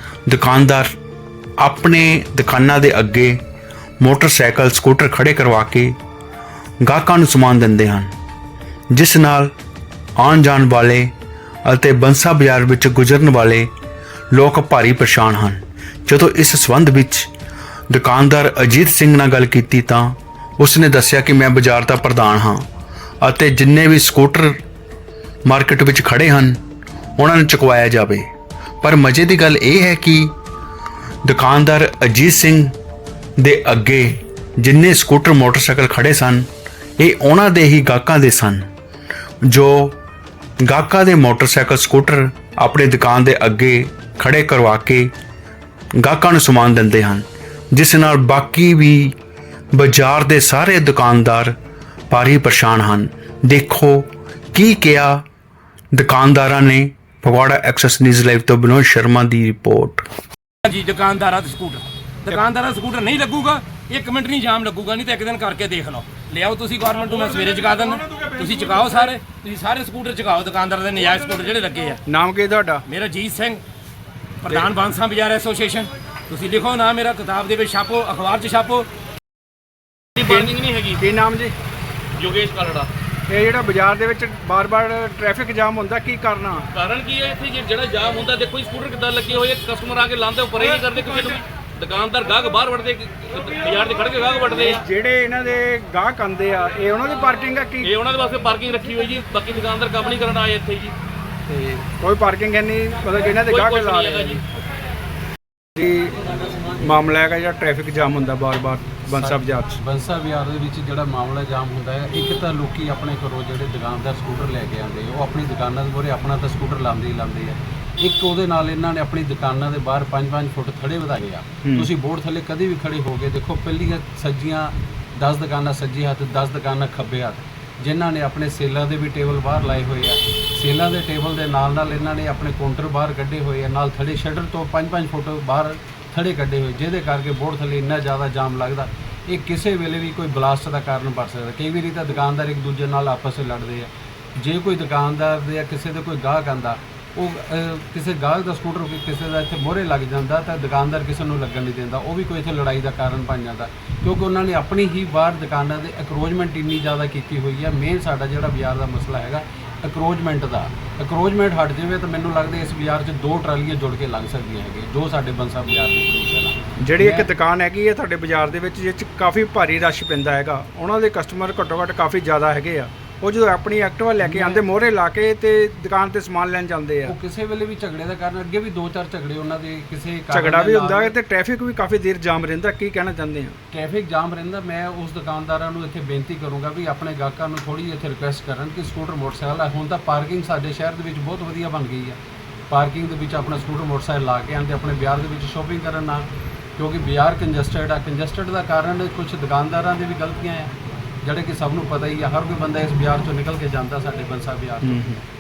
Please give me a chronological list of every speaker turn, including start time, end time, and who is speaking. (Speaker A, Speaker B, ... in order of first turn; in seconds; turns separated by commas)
Speaker A: 0.3-0.9, Speaker A: 1.6-3.4, Speaker A: 4.0-6.0, Speaker A: 6.8-8.1, Speaker A: 8.9-9.5, Speaker A: 10.2-11.1, Speaker A: 11.6-13.7, Speaker A: 14.3-17.3, Speaker A: 17.9-22.6, Speaker A: 23.2-24.6, Speaker A: 25.4-26.6, Speaker A: 27.2-28.3, Speaker A: 28.8-30.3, Speaker A: 31.2-32.7, Speaker A: 33.4-36.5, Speaker A: 37.0-38.7, Speaker A: 39.5-40.0, Speaker A: 40.6-45.1, Speaker A: 46.0-49.1, Speaker A: 49.7-51.5, Speaker A: 52.1-55.2, Speaker A: 55.9-60.0, Speaker B: 60.6-72.0, Speaker C: 72.1-72.8, Speaker B: 72.9-73.6, Speaker B: 74.4-78.9, Speaker D: 80.1-81.0, Speaker C: 80.2-81.5, Speaker D: 82.2-82.9, Speaker C: 83.3-86.7, Speaker D: 86.7-94.8, Speaker C: 94.6-97.9, Speaker D: 97.8-100.9, Speaker C: 101.5-104.4, Speaker D: 103.5-104.4, Speaker C: 105.7-106.1, Speaker C: 106.8-109.8, Speaker E: 109.1-167.3, Speaker C: 121.6-121.9, Speaker C: 166.8-177.1, Speaker E: 174.2-174.7, Speaker E: 177.0-181.1, Speaker C: 180.3-183.6, Speaker E: 183.7-192.2, Speaker E: 192.7-200.7, Speaker E: 201.2-205.0, Speaker C: 204.8-205.2